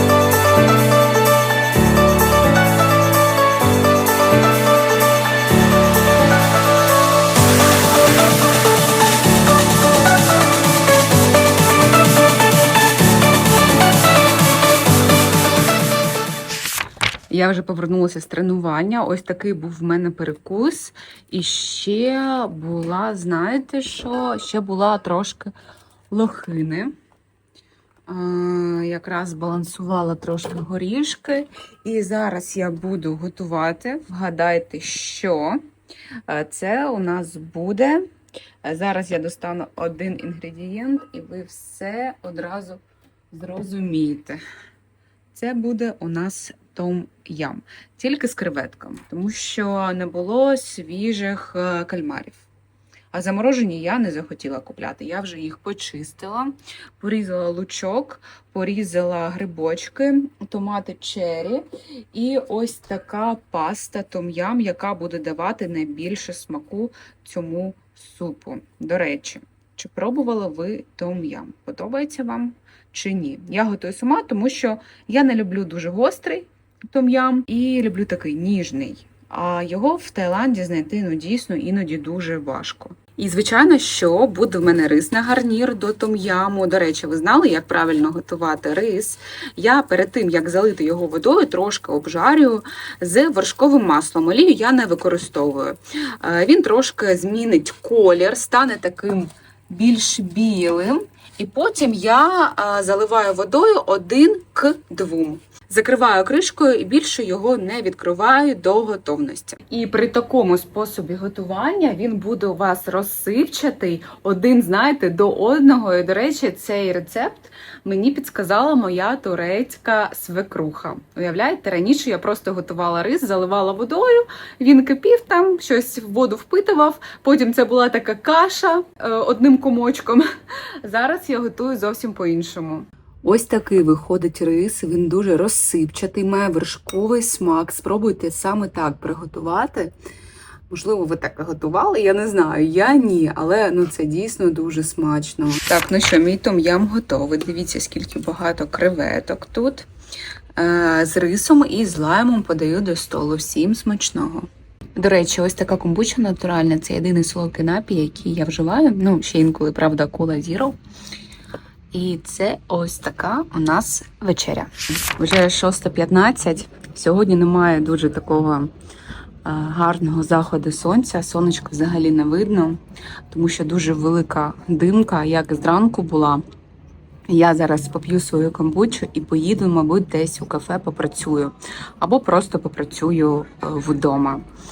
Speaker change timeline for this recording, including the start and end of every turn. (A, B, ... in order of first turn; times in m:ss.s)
0:17.3-0:25.5 A
0:26.1-0:26.9 A
0:28.1-0:35.6 A
0:36.3-0:38.0 A
0:38.6-0:44.4 A
0:45.3-0:52.4 A
0:53.1-2:10.3 A
2:10.8-2:19.9 A
2:20.7-2:29.9 A
2:30.6-2:40.8 A
2:41.9-2:48.7 A
2:49.4-2:56.4 A
2:57.3-3:04.4 A